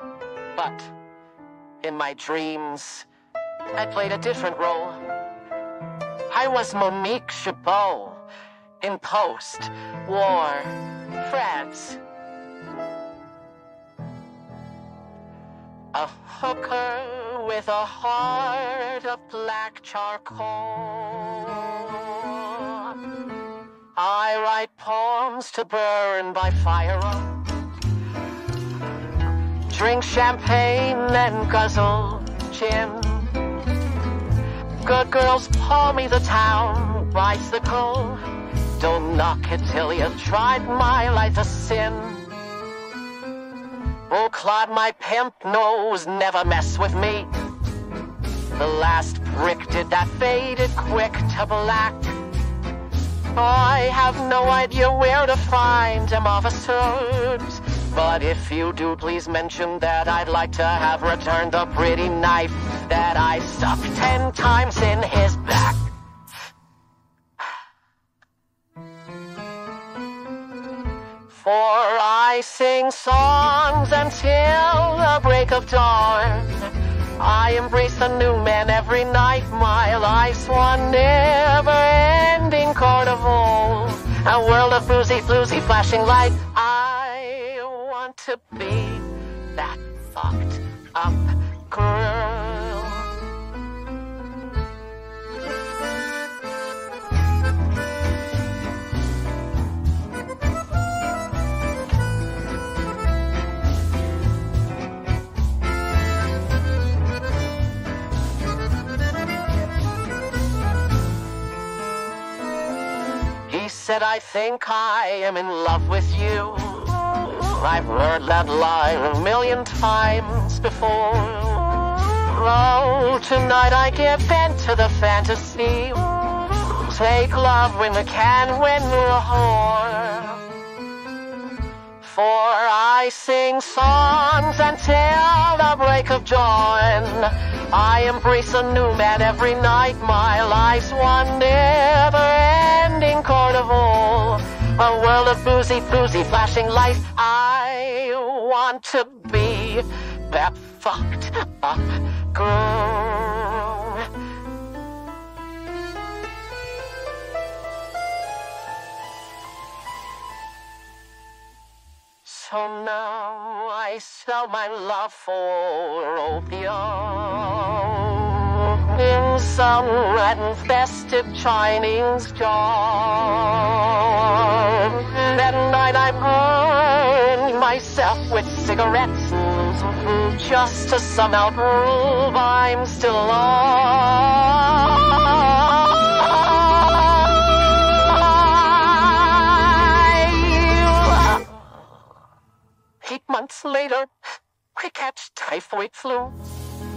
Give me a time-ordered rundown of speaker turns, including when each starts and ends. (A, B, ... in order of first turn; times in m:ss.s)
0:00.6-0:00.9 A
0:01.8-0:03.1 A
0:03.8-0:05.0 A
0:06.3-0:08.2 A
0:08.8-0:12.0 A
0:15.9-0:23.0 A
0:24.0-0:27.4 A
0:29.7-0:33.3 A
0:34.8-0:38.2 A
0:38.8-0:42.3 A
0:44.1-0:47.3 A
0:48.6-0:52.2 A
0:53.3-1:05.9 A
1:11.3-1:33.1 A
1:53.5-2:10.4 A
2:12.0-2:34.1 A
2:42.2-3:11.6 A
3:13.0-3:14.1 A
3:14.8-3:16.4 A